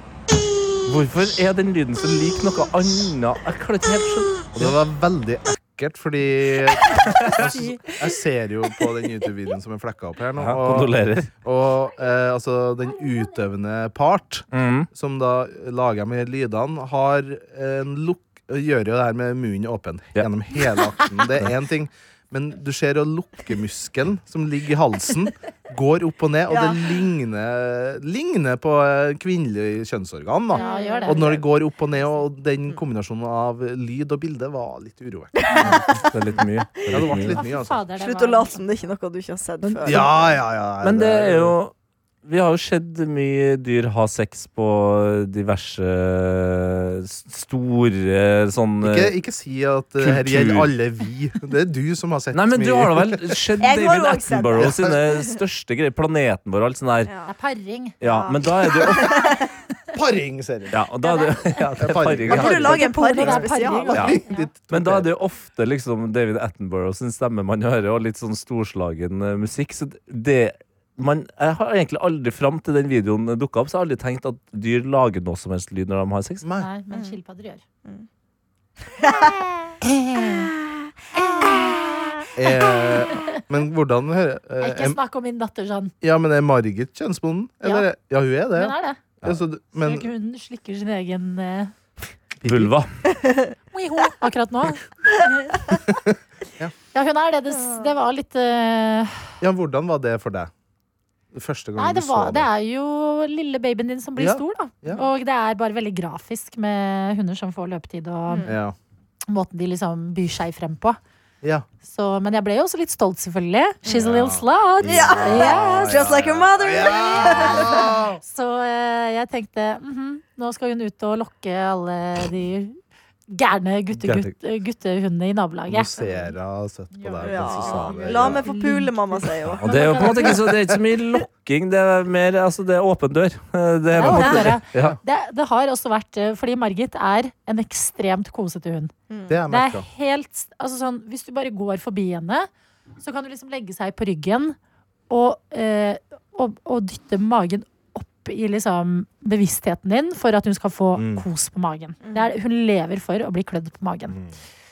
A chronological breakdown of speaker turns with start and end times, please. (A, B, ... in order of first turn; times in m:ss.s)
0:00.9-0:04.7 A
0:04.5-0:37.8 B
0:07.2-0:07.6 A
0:10.4-0:11.3 A
0:14.5-0:14.9 A
0:26.5-0:26.8 C
0:30.5-0:31.4 D
0:30.5-0:31.4 C
0:35.4-0:36.0 C
0:35.6-0:37.4 A
0:37.3-0:38.6 D
0:38.0-0:40.2 C
0:39.6-0:40.1 A
0:39.8-0:41.6 B
0:40.8-0:41.7 A
0:42.2-0:49.2 A
0:48.8-0:53.4 B
0:50.0-0:50.7 A
0:52.3-0:57.1 A
0:53.6-0:55.2 C
0:54.6-0:55.0 B
0:57.1-0:57.3 C
0:57.3-0:58.0 D
0:58.0-0:59.4 A
0:58.0-0:59.5 C
0:59.9-1:00.8 B
1:00.7-1:03.3 A
1:01.0-1:01.3 D
1:01.8-1:05.1 B
1:02.3-1:04.2 C
1:02.5-1:04.5 D
1:04.7-1:16.4 A
1:16.4-1:16.7 B
1:16.6-1:17.6 D
1:16.9-1:17.2 C
1:18.8-1:19.4 C
1:19.8-1:20.5 D
1:21.2-1:21.8 C
1:22.4-1:25.0 B
1:24.6-1:25.9 D
1:26.0-1:30.1 B
1:28.6-1:29.0 D
1:29.8-1:31.7 D
1:32.4-1:32.7 B
1:32.4-1:32.9 A
1:33.1-1:33.5 C
1:33.7-1:35.6 D
1:35.9-1:36.7 B
1:36.9-1:39.2 D
1:37.6-1:37.9 C
1:39.4-1:40.5 B
1:41.3-1:42.5 B
1:41.8-1:48.5 D
1:44.2-1:45.0 B
1:48.3-1:48.6 C
1:48.5-1:48.8 B
1:49.3-1:51.0 D
1:51.9-1:55.9 D
1:53.9-1:58.2 B
1:54.8-1:58.0 C
1:57.2-2:02.8 D
2:03.3-2:06.3 D
2:03.9-2:04.4 B
2:05.7-2:08.4 B
2:06.9-2:10.4 D
2:07.2-2:10.3 C
2:09.6-2:15.0 A
2:10.2-2:10.8 B
2:14.0-2:18.9 D
2:14.0-2:15.0 B
2:14.1-2:14.5 C
2:19.1-2:19.4 C
2:19.3-2:19.9 B
2:19.5-2:22.5 D
2:23.0-2:24.6 D
2:25.1-2:34.2 D
2:31.0-2:31.3 B
2:32.0-2:32.3 C